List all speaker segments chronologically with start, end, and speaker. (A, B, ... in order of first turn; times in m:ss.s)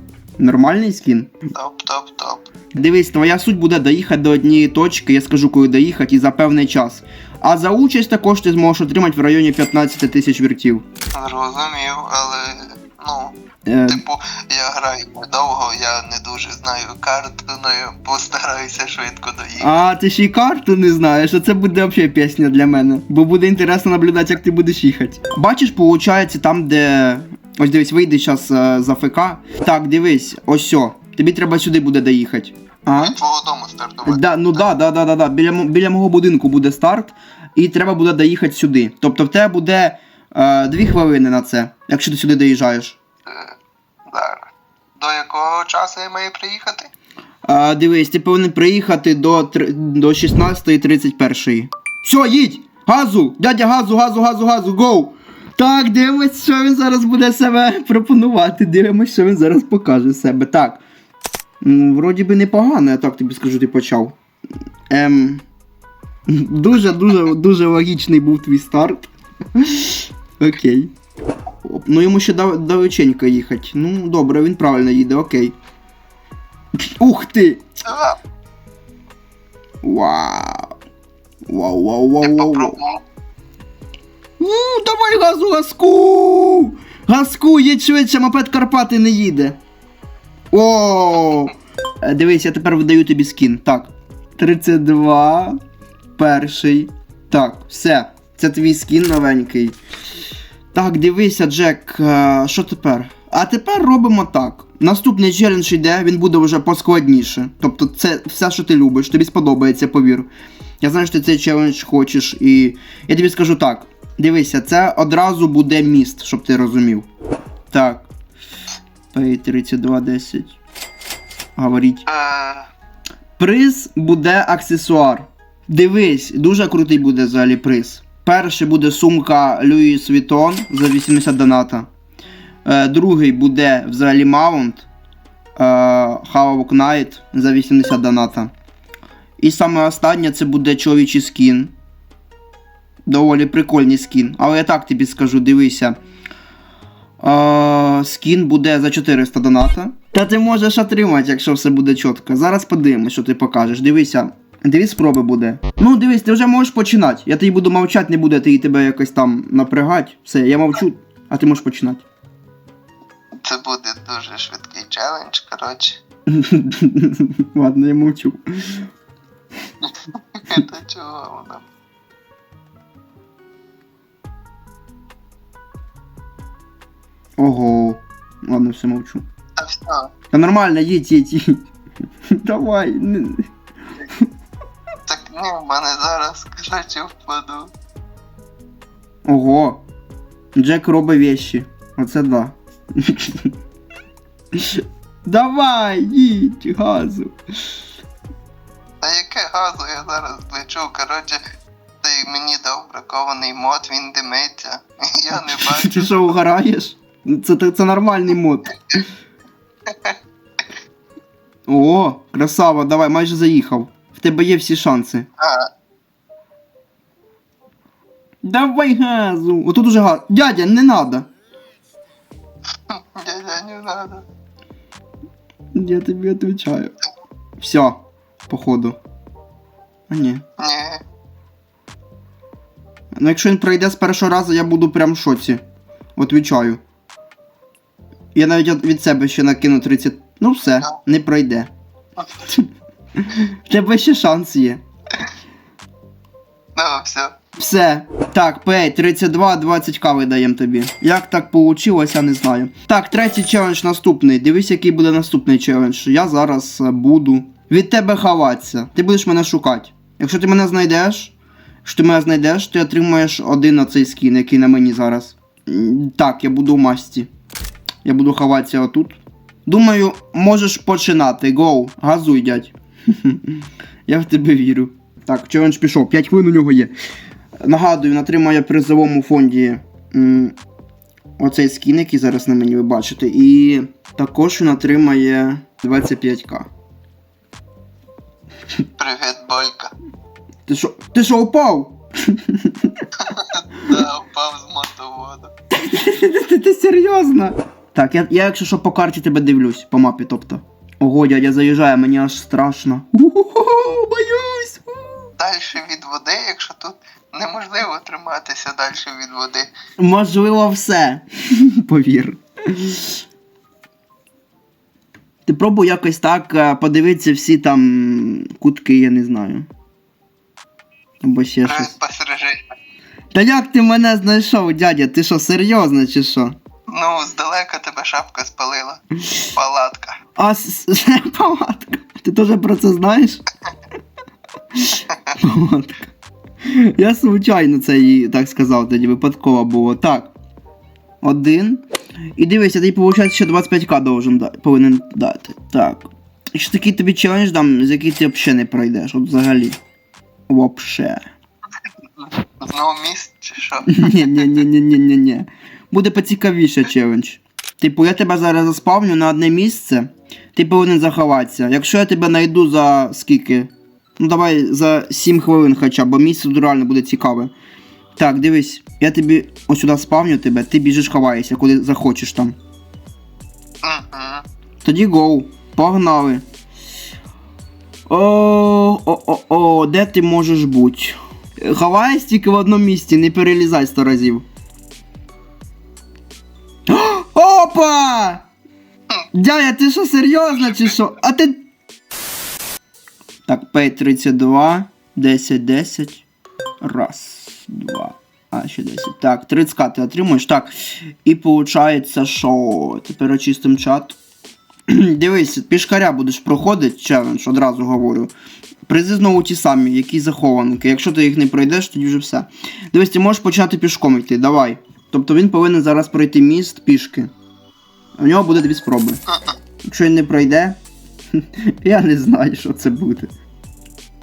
0:00.4-0:01.3 A
0:01.5-0:02.5 B
0:02.7-0:10.8 A
0:11.1-0:19.7 B
0:13.7-0:14.0 A
0:19.6-0:33.2 A
0:33.0-0:34.6 B
0:34.0-0:43.0 A
0:43.3-0:43.6 B
0:44.1-0:46.9 B
0:47.4-1:00.8 A
1:01.6-1:04.2 A
1:04.9-1:05.4 A
1:06.3-1:10.9 A
1:11.6-1:15.6 A
1:17.0-1:17.6 A
1:17.8-1:18.2 B
1:19.8-1:20.7 A
1:21.5-1:22.8 A
1:22.2-1:23.0 B
1:24.4-1:29.6 A
1:30.5-1:35.6 A
1:36.2-1:39.8 A
1:40.7-1:50.3 A
1:50.8-1:57.1 A
1:57.7-1:58.1 A
1:59.1-2:00.6 A
2:01.6-2:02.1 A
2:02.1-2:02.7 B
2:03.4-2:11.9 A
2:12.6-2:14.9 A
2:15.6-2:18.5 A
2:19.4-2:21.7 A
2:23.1-2:26.0 A
2:27.2-2:42.0 A
2:43.4-2:46.0 B
2:46.3-2:48.9 A
2:49.8-2:51.7 B
2:57.4-2:59.2 A
2:59.6-3:00.1 B
3:00.3-3:01.6 A
3:02.3-3:03.5 A
3:05.1-3:07.7 B
3:09.2-3:09.8 A
3:10.6-3:13.5 A
3:14.6-3:17.4 A
3:19.0-3:21.4 B
3:22.0-3:26.3 B
3:25.4-3:29.0 A
3:29.9-3:30.2 B
3:31.7-3:35.3 A
3:35.4-3:35.7 B
3:38.4-3:41.3 A
3:42.9-3:44.2 B
3:45.7-3:46.9 A
3:47.6-3:49.0 A
3:50.1-3:50.4 A
3:50.6-3:51.0 B
3:53.2-3:55.6 A
3:56.2-3:56.8 A
3:58.3-4:01.7 A
4:02.5-4:04.8 A
4:06.8-4:07.4 B
4:07.6-4:27.3 A
4:28.0-4:36.9 A
4:37.6-4:40.6 A
4:41.4-4:46.7 A
4:49.0-4:49.9 B
4:50.7-4:53.0 A
4:53.2-4:55.5 B
4:55.7-5:05.1 A
5:05.4-5:09.7 B
5:10.0-5:13.2 A
5:15.5-5:19.7 A
5:21.2-5:21.9 A
5:21.6-5:22.7 B
5:23.3-5:26.6 A
5:26.9-5:30.2 B
5:30.4-5:33.4 A
5:34.8-5:40.3 A
5:41.2-5:41.8 A
5:42.4-5:49.8 A
5:50.5-5:51.2 A
5:52.2-5:54.7 B
5:53.9-6:07.5 A
6:08.2-6:12.6 A
6:13.8-6:14.4 B
6:14.8-6:16.4 A
6:18.1-6:24.4 A
6:26.9-6:28.4 A
6:29.3-6:31.6 A
6:30.6-6:30.9 B
6:33.5-6:36.2 A
6:36.8-6:44.2 A
6:44.9-6:48.3 A
6:48.9-6:57.3 A
6:58.2-6:59.2 A
6:59.8-7:00.8 A
7:01.4-7:03.3 A